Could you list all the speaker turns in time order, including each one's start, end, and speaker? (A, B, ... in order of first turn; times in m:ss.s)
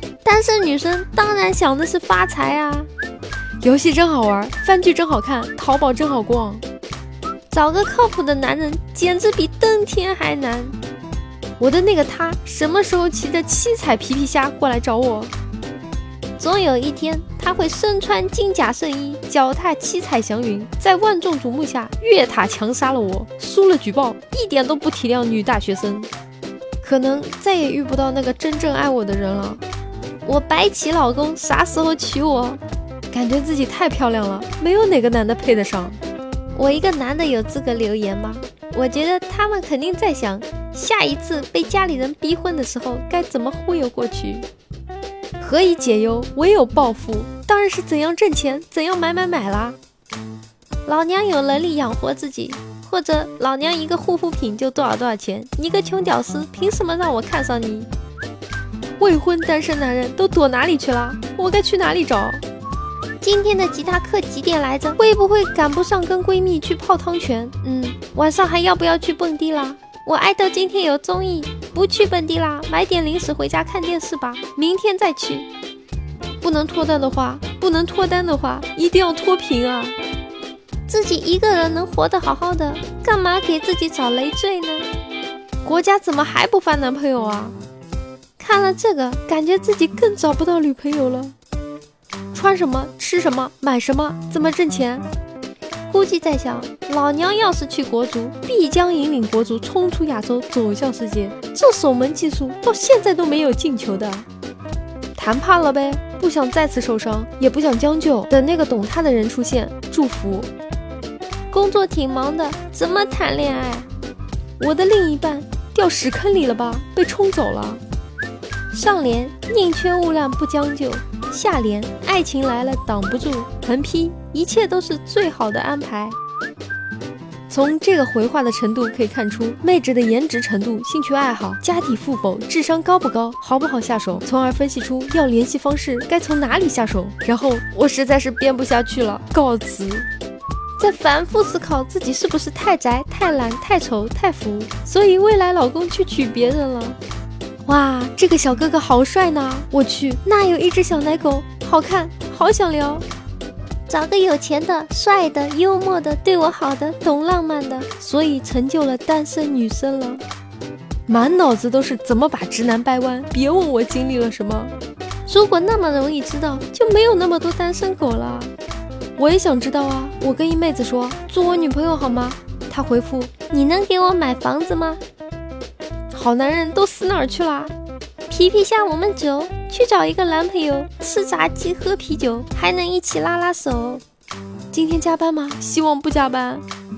0:00.2-0:02.9 A
0:03.6-0:06.6 A
0:07.5-0:10.8 A
0:11.6-0:15.3 A
0:16.4-0:26.1 A
0:26.8-0:29.6 A
0:30.2-0:36.0 A
0:36.5-0:44.5 A
0:45.4-0:49.8 A
0:50.8-0:57.9 A
0:59.0-1:02.4 A
1:03.2-1:15.5 A
1:16.4-1:20.0 A
1:20.9-1:24.9 A
1:25.6-1:27.6 A
1:28.4-1:31.3 A
1:32.3-1:35.0 A
1:35.9-1:44.2 A
1:45.2-1:50.5 A
1:51.5-1:53.9 A
1:54.6-1:57.8 A
1:58.7-2:06.2 A
2:07.5-2:20.1 A
2:20.8-2:27.0 A
2:27.6-2:33.0 A
2:33.9-2:40.2 A
2:41.1-2:44.7 A
2:45.2-2:48.5 A
2:49.2-2:55.0 A
2:56.1-2:57.7 A
2:58.3-3:04.0 A
3:04.7-3:06.6 A